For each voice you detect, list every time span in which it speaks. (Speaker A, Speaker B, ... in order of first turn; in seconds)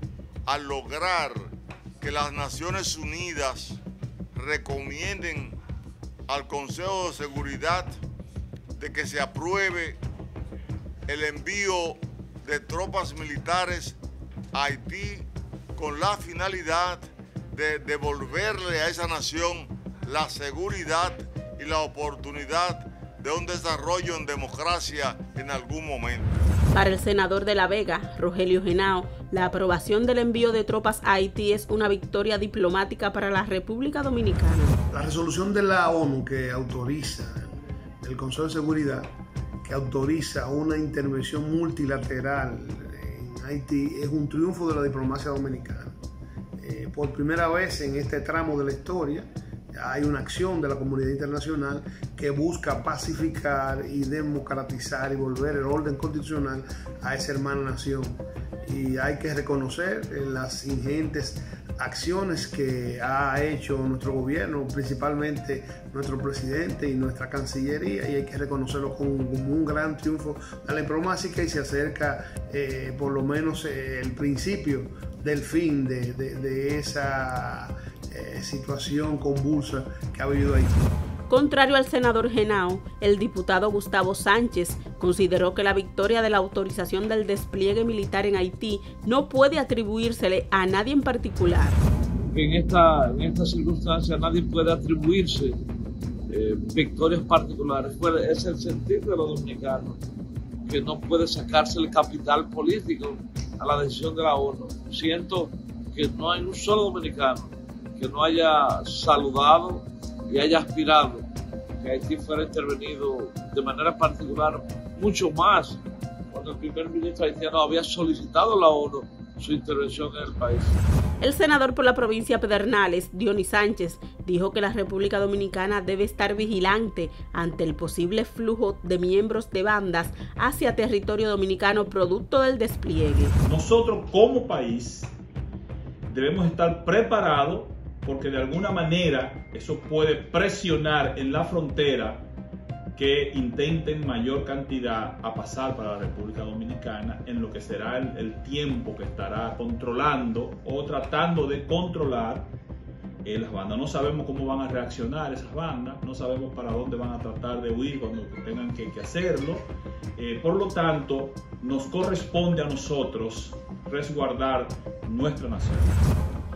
Speaker A: 0.5-1.5, 2.0-3.8, 4.3-5.6, 6.3-7.9, 8.8-10.0, 11.1-14.0, 14.5-26.3
Speaker B: 26.7-34.8, 81.3-91.8, 121.2-133.4
Speaker C: 34.9-37.5, 38.0-39.1, 39.6-46.0, 46.6-80.9
Speaker D: 92.3-95.6, 96.3-100.0, 100.7-111.3, 111.8-115.8, 116.3-120.8
Speaker E: 133.4-135.2, 136.1-142.3, 142.9-152.5, 153.2-166.0